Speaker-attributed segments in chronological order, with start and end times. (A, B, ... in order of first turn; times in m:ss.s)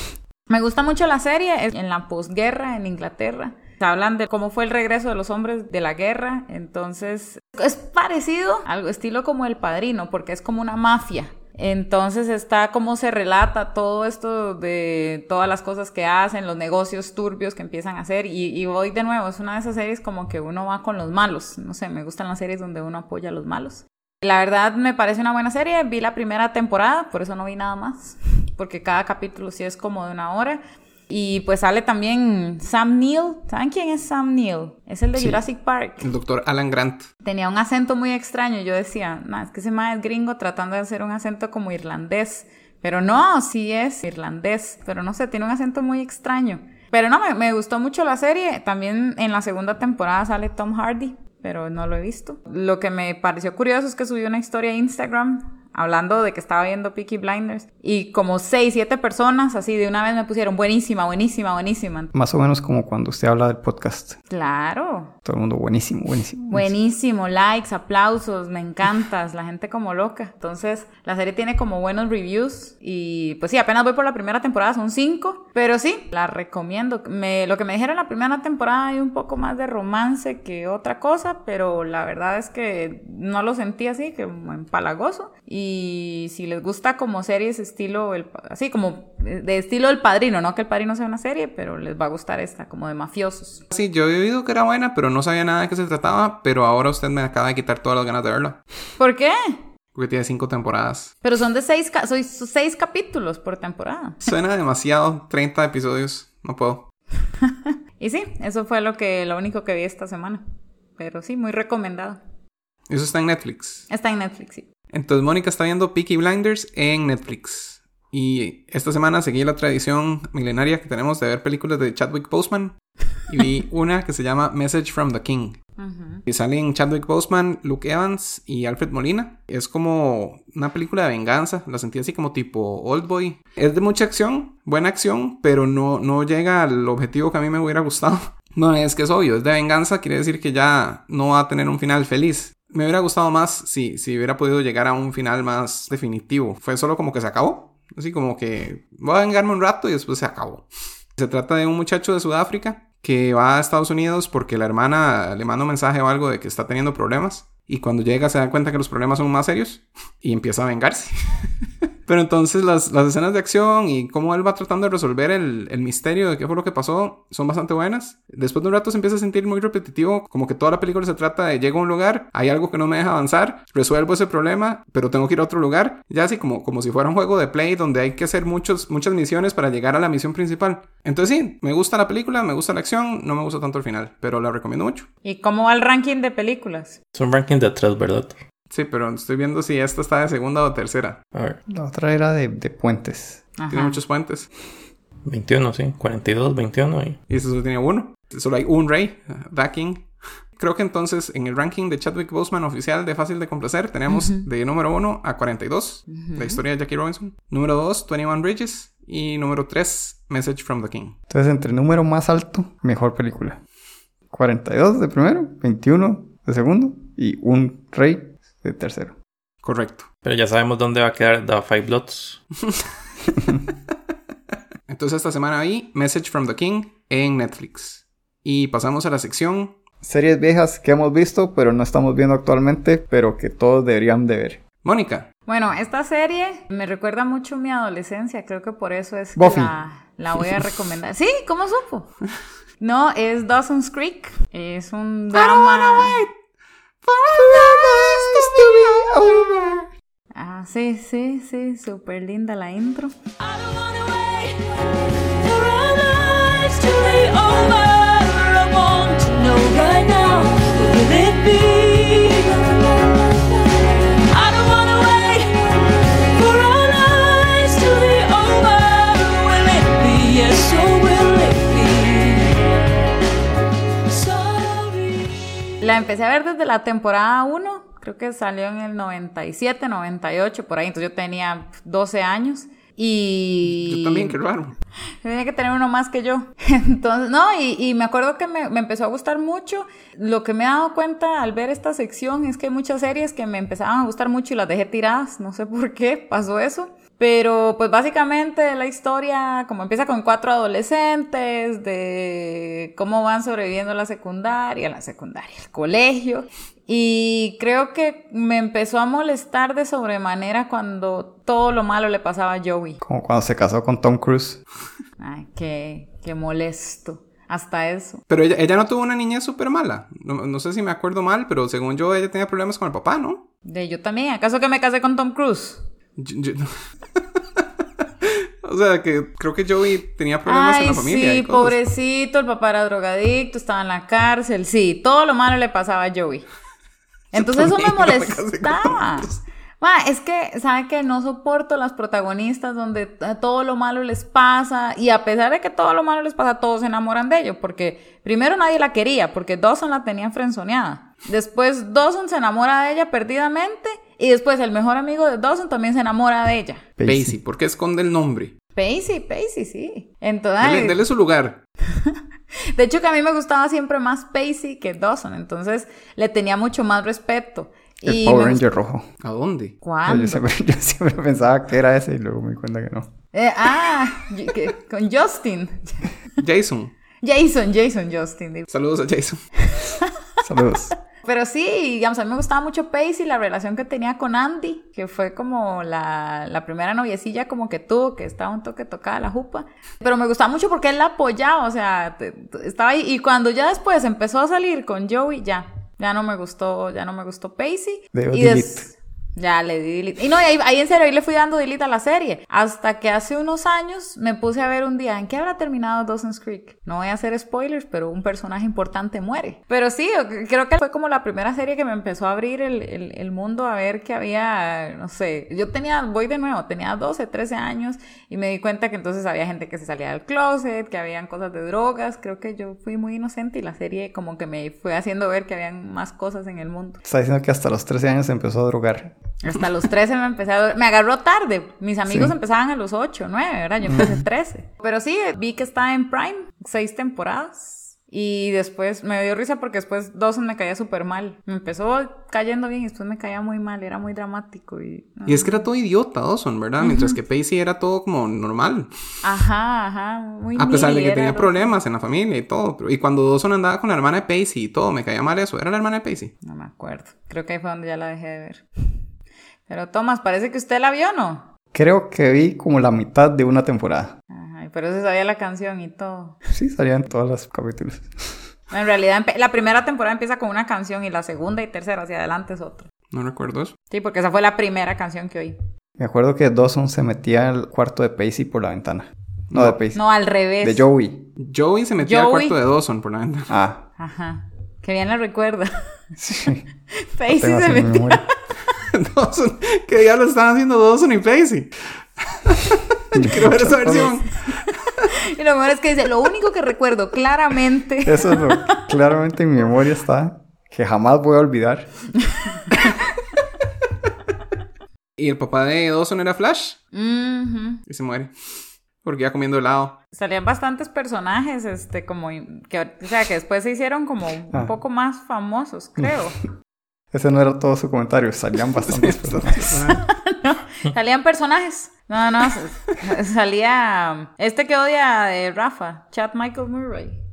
0:00.5-0:36.0 A
0:35.2-0:35.4 B
0:36.0-0:37.1 B
0:37.2-1:02.1 A
1:02.1-1:04.2 C
1:04.3-1:05.1 A
1:05.2-1:06.7 C
1:06.5-1:33.6 A
1:33.7-1:38.6 B
1:39.0-1:39.6 A
1:40.0-1:41.1 B
1:41.2-1:44.2 A
1:44.2-1:46.9 B
1:48.0-1:50.4 A
1:51.0-1:52.2 A
1:52.9-1:53.9 B
1:53.9-1:54.7 A
1:54.9-2:05.6 B
2:05.8-2:06.2 A
2:06.3-2:41.5 B
2:42.1-3:05.1 B
3:05.2-3:07.0 A
3:07.2-3:08.4 D
3:08.7-3:11.2 B
3:11.7-3:13.4 C
3:13.6-3:14.0 A
3:13.7-3:14.5 B
3:15.2-3:17.2 D
3:17.3-3:31.2 B
3:24.1-3:24.4 A
3:26.1-3:26.6 A
3:31.3-3:33.6 C
3:34.3-3:39.2 C
3:39.6-3:40.1 B
3:40.2-3:42.4 D
3:44.9-3:49.8 B
3:50.0-3:54.6 C
3:54.8-3:55.3 B
3:55.5-4:02.1 A
3:59.4-3:59.8 C
4:02.8-4:06.2 A
4:05.4-4:06.3 B
4:07.1-4:09.4 B
4:07.3-4:09.8 C
4:10.3-4:13.1 A
4:13.4-4:14.8 E
4:15.4-4:23.2 E
4:24.3-4:25.5 E
4:26.4-4:32.6 E
4:34.1-4:35.4 E
4:35.8-4:44.4 A
4:43.7-4:44.8 B
4:45.2-5:13.0 A
5:13.0-5:14.6 C
5:15.2-5:18.2 A
5:18.3-5:23.4 B
5:23.6-5:25.8 A
5:26.2-5:26.7 B
5:28.2-5:31.8 B
5:30.5-5:36.5 A
5:37.3-5:39.3 B
5:37.3-5:56.8 A
5:57.0-5:57.4 C
5:57.0-5:58.5 B
5:58.8-6:01.0 A
6:00.6-6:01.6 B
6:02.8-6:08.6 A
6:08.0-6:09.1 C
6:09.2-6:09.8 B
6:09.8-6:10.4 A
6:10.0-6:13.1 C
6:13.3-6:16.1 A
6:16.4-6:16.9 B
6:17.2-6:18.7 A
6:18.7-6:19.4 B
6:19.7-6:20.0 A
6:20.4-6:20.9 C
6:21.2-7:07.0 A
6:38.1-6:38.9 C
7:07.0-7:09.2 C
7:09.4-7:25.6 A
7:12.1-7:12.4 C
7:13.8-7:14.1 C
7:25.3-7:28.9 B
7:26.8-7:27.2 A
7:29.2-7:31.7 A
7:30.6-7:36.3 B
7:36.4-7:38.6 A
7:39.7-7:41.5 A
7:41.7-7:44.2 C
7:44.3-7:46.4 A
7:46.5-7:48.5 C
7:48.7-7:52.9 A
7:53.1-7:53.8 B
7:53.9-7:55.6 A
7:56.0-8:00.0 C
7:59.5-7:59.8 B
7:59.9-8:00.8 A
8:00.6-8:01.3 C
8:01.4-8:03.5 B
8:02.0-8:02.6 A
8:03.5-8:03.9 C
8:04.0-8:05.7 A
8:06.2-8:06.7 C
8:07.0-8:08.2 A
8:07.4-8:08.3 C
8:08.9-8:15.0 B
8:13.1-8:14.2 C
8:15.3-8:18.6 A
8:18.0-8:21.9 C
8:25.2-8:26.8 B
8:26.9-8:27.8 A
8:27.9-8:30.0 B
8:30.1-8:36.4 A
8:37.1-8:40.0 C
8:39.0-8:40.0 B
8:40.3-8:47.2 A